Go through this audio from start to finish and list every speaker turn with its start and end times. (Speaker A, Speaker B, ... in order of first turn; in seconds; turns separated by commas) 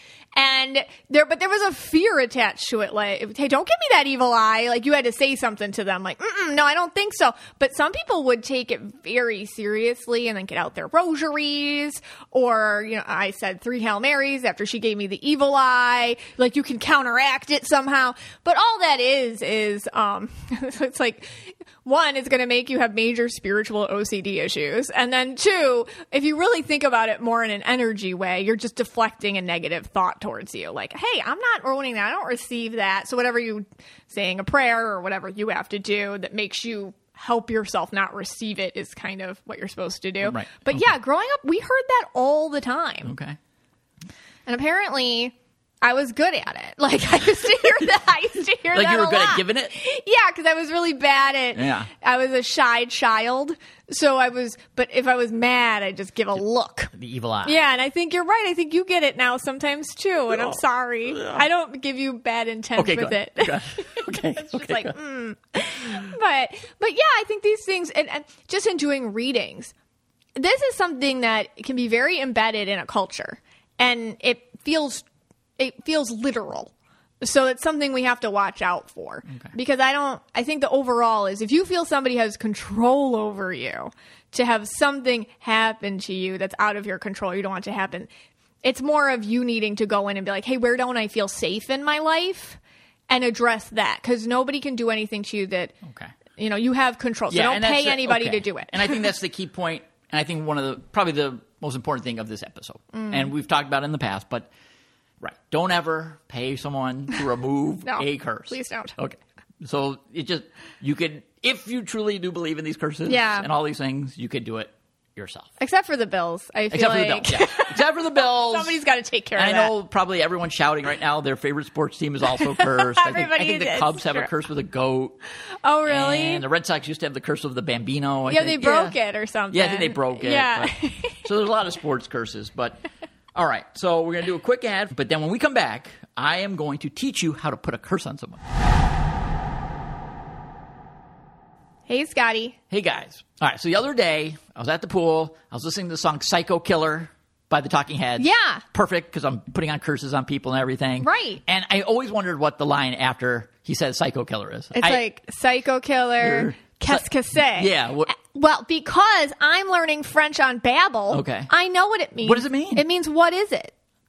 Speaker A: 0.3-43.1, Speaker B: 40.2-40.9, Speaker B: 43.0-43.4, Speaker A: 44.5-69.7, Speaker B: 48.7-49.7, Speaker B: 51.5-51.9, Speaker B: 56.9-57.6, Speaker B: 60.3-61.5, Speaker B: 62.8-64.9, Speaker A: 70.3-75.0, Speaker A: 75.6-88.1, Speaker A: 88.6-95.8, Speaker B: 95.8-96.1, Speaker A: 96.3-99.1, Speaker B: 97.3-104.5, Speaker A: 102.9-103.3, Speaker B: 105.2-115.5, Speaker A: 107.8-109.0, Speaker A: 113.1-113.5, Speaker A: 115.6-119.7, Speaker B: 116.7-118.8, Speaker B: 119.3-125.2, Speaker A: 122.4-124.3, Speaker A: 125.5-126.4, Speaker B: 125.8-128.9, Speaker A: 128.3-131.2, Speaker B: 129.5-132.8, Speaker B: 133.3-138.4, Speaker A: 141.9-142.6, Speaker B: 142.7-155.0, Speaker A: 148.2-148.6, Speaker A: 151.0-151.4, Speaker A: 154.7-163.7, Speaker B: 156.2-158.1, Speaker B: 161.1-161.5, Speaker B: 162.2-162.8